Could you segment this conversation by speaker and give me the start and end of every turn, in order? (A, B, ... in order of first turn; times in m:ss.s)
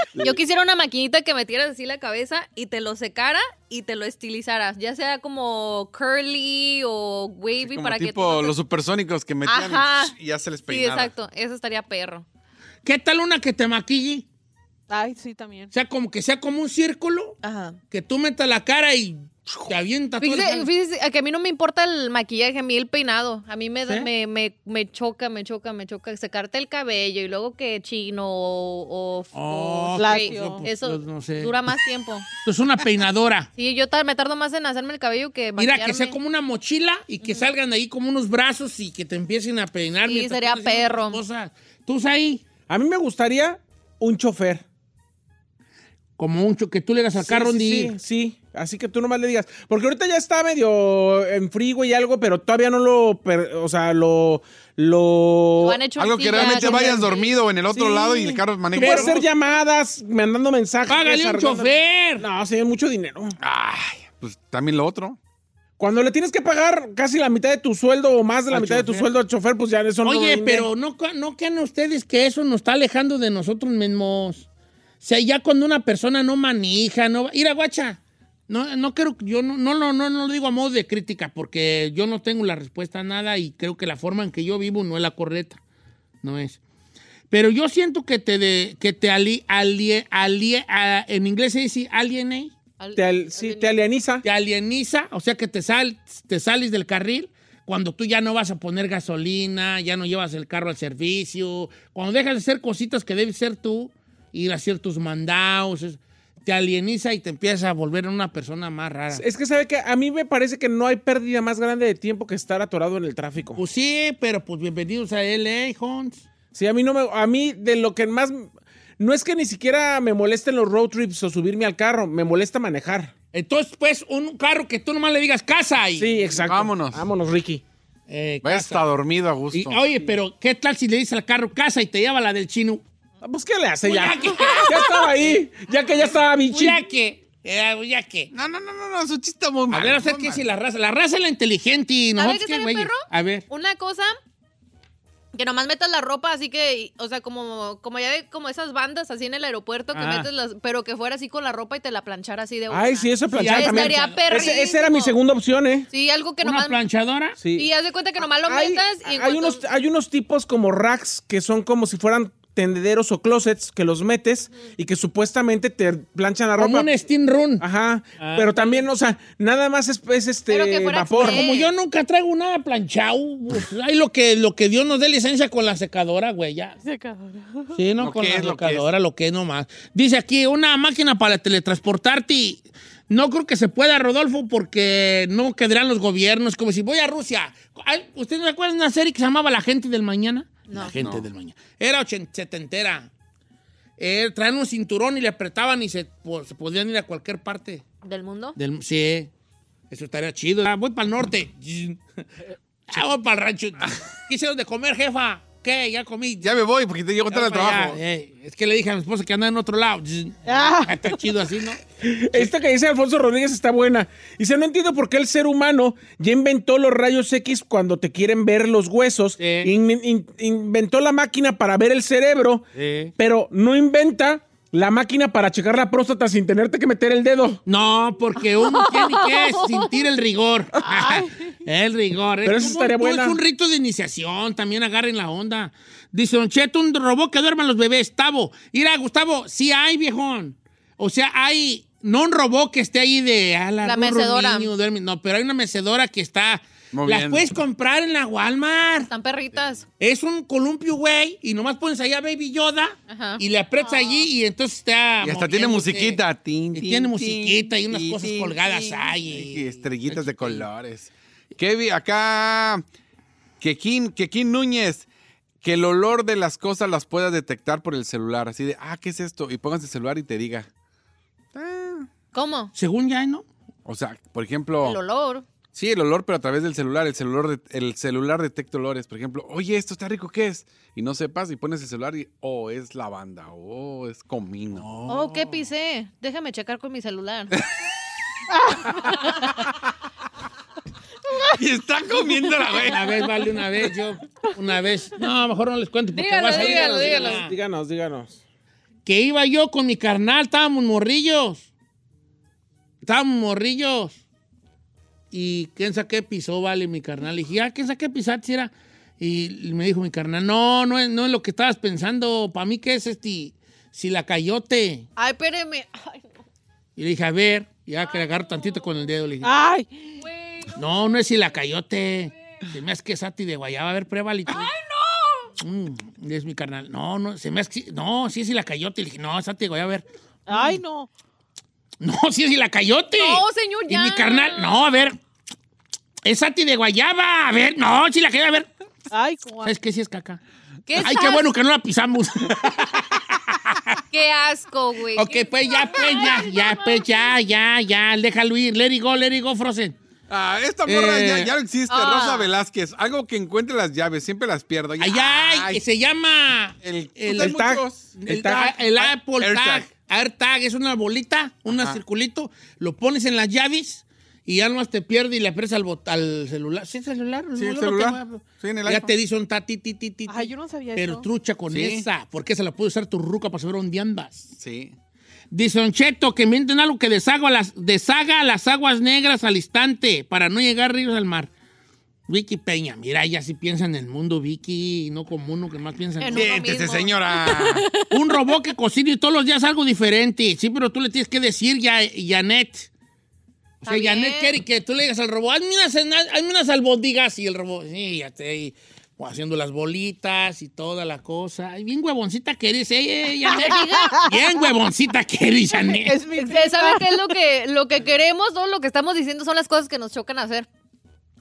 0:00.2-0:08.6 A
0:07.6-0:11.1 B
0:09.4-0:10.1 A
0:10.7-0:12.2 A
0:12.8-0:14.2 C
0:14.9-0:15.7 D
0:15.7-0:17.4 C
0:17.4-0:17.8 A
0:17.9-0:20.7 C
0:20.2-0:32.3 A
0:29.3-0:31.7 C
0:30.0-0:30.6 D
0:32.4-0:33.5 C
0:33.6-0:36.2 A
0:35.6-0:42.4 C
0:37.2-0:37.5 A
0:40.0-0:41.2 A
0:42.7-0:44.6 E
0:46.2-0:47.9 C
0:47.2-0:57.1 E
0:55.6-0:57.3 A
0:56.0-0:59.2 B
0:56.4-0:56.7 C
0:57.7-1:03.3 E
0:58.7-0:59.2 C
1:00.9-1:02.3 C
1:03.4-1:05.2 B
1:05.8-1:10.7 E
1:08.5-1:09.1 C
1:10.0-1:14.4 C
1:15.0-1:25.6 C
1:26.2-1:26.6 C
1:27.3-1:32.5 C
1:32.8-1:33.8 A
1:32.9-1:34.2 E
1:34.2-1:49.2 C
1:49.1-1:53.6 E
1:53.6-1:56.2 C
1:56.5-2:03.1 E
2:03.3-2:06.3 C
2:06.0-2:07.6 E
2:06.4-2:07.0 B
2:08.1-2:08.8 C
2:08.4-2:09.8 B
2:09.5-2:12.8 C
2:13.2-2:16.8 E
2:13.8-2:15.3 C
2:16.4-2:18.3 C
2:18.3-2:20.4 B
2:19.7-2:23.4 C
2:22.2-2:24.1 A
2:25.3-2:35.2 A
2:29.9-2:30.3 C
2:32.7-2:35.9 E
2:33.3-2:34.2 C
2:35.9-2:36.8 A
2:36.4-2:37.4 C
2:37.4-2:37.7 E
2:37.6-2:39.6 A
2:38.4-2:46.9 E
2:46.6-2:47.6 C
2:47.6-2:51.4 E
2:48.2-2:48.8 C
2:50.5-2:51.7 A
2:51.2-2:56.8 C
2:56.8-2:57.7 D
2:57.7-3:13.1 C
2:58.0-2:58.9 B
3:10.7-3:11.0 A
3:10.8-3:11.2 B
3:14.0-3:17.8 C
3:18.0-3:18.6 A
3:18.6-3:19.3 C
3:19.9-3:22.0 C
3:22.9-3:26.5 C
3:26.4-3:28.0 B
3:27.3-3:31.8 C
3:30.5-3:31.2 D
3:32.0-3:47.6 E
3:39.4-3:39.7 C
3:42.7-3:43.1 C
3:47.6-4:09.1 C
3:48.7-3:49.9 A
3:50.8-3:51.5 D
3:52.4-3:53.4 E
4:03.8-4:04.7 A
4:06.9-4:07.5 B
4:09.1-4:09.8 A
4:10.0-4:16.2 C
4:13.1-4:14.2 A
4:15.2-4:22.8 B
4:16.7-4:20.7 C
4:23.6-4:25.1 B
4:25.6-4:30.7 B
4:31.5-4:32.1 B
4:32.3-4:32.7 A
4:32.8-4:33.5 C
4:33.9-4:35.0 B
4:34.8-4:35.4 A
4:35.7-4:44.9 B
4:44.8-4:45.6 C
4:45.1-4:47.6 A
4:48.5-4:49.3 D
4:51.5-4:53.2 B
4:52.8-4:57.5 C
4:56.1-4:57.4 A
4:56.5-4:58.4 E
4:59.0-5:01.6 C
5:03.0-5:04.2 C
5:05.3-5:15.1 C
5:15.2-5:16.2 A
5:17.0-5:19.5 C
5:19.4-5:20.2 D
5:20.4-5:20.7 A
5:20.7-5:24.7 C
5:24.5-5:25.5 A
5:25.6-5:30.7 C
5:30.5-5:31.1 D
5:32.0-5:35.2 C
5:33.2-5:34.9 A
5:36.2-5:38.7 C
5:39.1-5:39.7 D
5:39.6-5:40.4 C
5:40.9-5:41.5 A
5:41.0-5:44.0 C
5:44.1-5:47.3 A
5:45.1-5:49.9 C
5:50.3-5:55.8 B
5:50.9-5:51.5 C
5:51.9-5:52.5 A
5:55.0-5:57.6 C
5:56.8-5:58.2 B
5:57.3-5:58.8 E
5:58.1-6:14.5 C
5:59.0-5:59.9 B
6:01.7-6:02.0 B
6:07.6-6:09.1 B
6:10.3-6:11.3 D
6:11.7-6:12.0 B
6:14.6-6:14.9 B
6:15.5-6:21.5 C
6:22.3-6:26.6 C
6:26.2-6:27.9 A
6:26.3-6:27.9 B
6:28.1-6:32.9 C
6:33.8-6:46.2 C
6:33.8-6:34.6 A
6:43.6-6:44.1 A
6:45.8-6:47.4 D
6:46.4-6:50.7 A